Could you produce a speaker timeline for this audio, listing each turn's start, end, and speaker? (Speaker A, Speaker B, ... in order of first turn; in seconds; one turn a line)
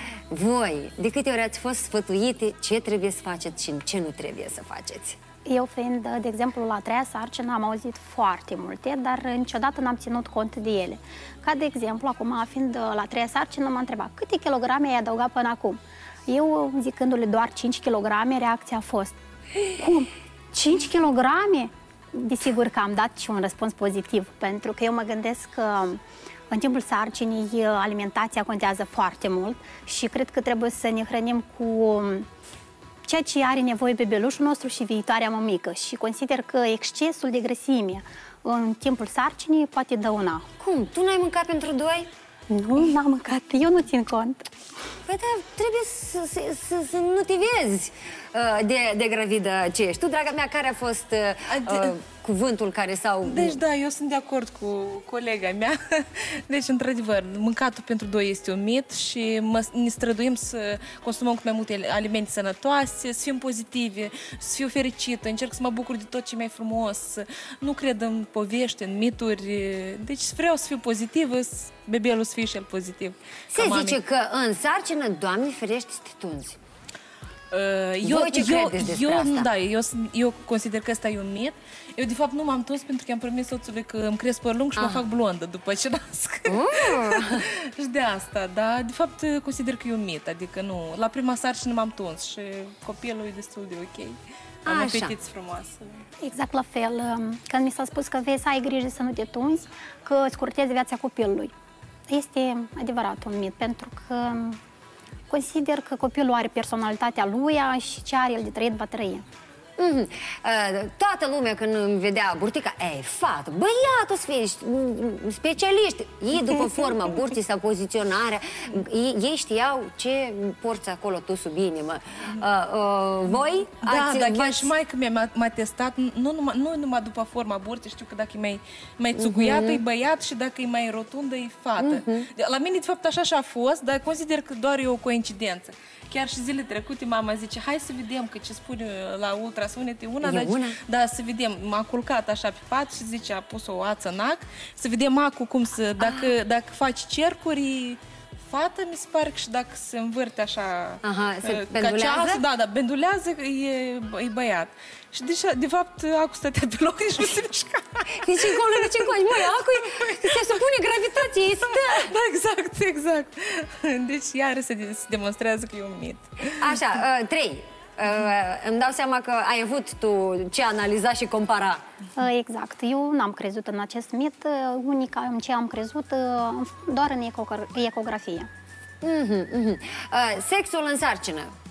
Speaker A: 0.3-5.2
Speaker B: 5.5-19.2
Speaker B: 19.7-32.3
Speaker B: 33.1-40.5
Speaker A: 40.6-42.1
Speaker B: 42.5-44.5
Speaker A: 45.1-53.6
Speaker C: 51.5-52.0
Speaker C: 53.3-74.0
Speaker A: 73.5-76.6
Speaker C: 77.5-95.8
Speaker A: 78.0-79.5
Speaker A: 84.8-85.0
Speaker A: 86.5-87.4
Speaker A: 94.7-95.2
Speaker B: 96.2-101.5
Speaker B: 102.1-104.6
Speaker B: 105.3-109.2
Speaker A: 109.8-124.7
Speaker C: 123.4-160.6
Speaker A: 129.2-129.8
Speaker A: 131.8-132.3
Speaker A: 140.2-140.8
Speaker A: 146.0-146.3
Speaker A: 151.0-152.4
Speaker A: 158.2-162.1
Speaker C: 161.2-166.7
Speaker A: 166.6-171.8
Speaker B: 172.2-178.5
Speaker A: 179.0-181.5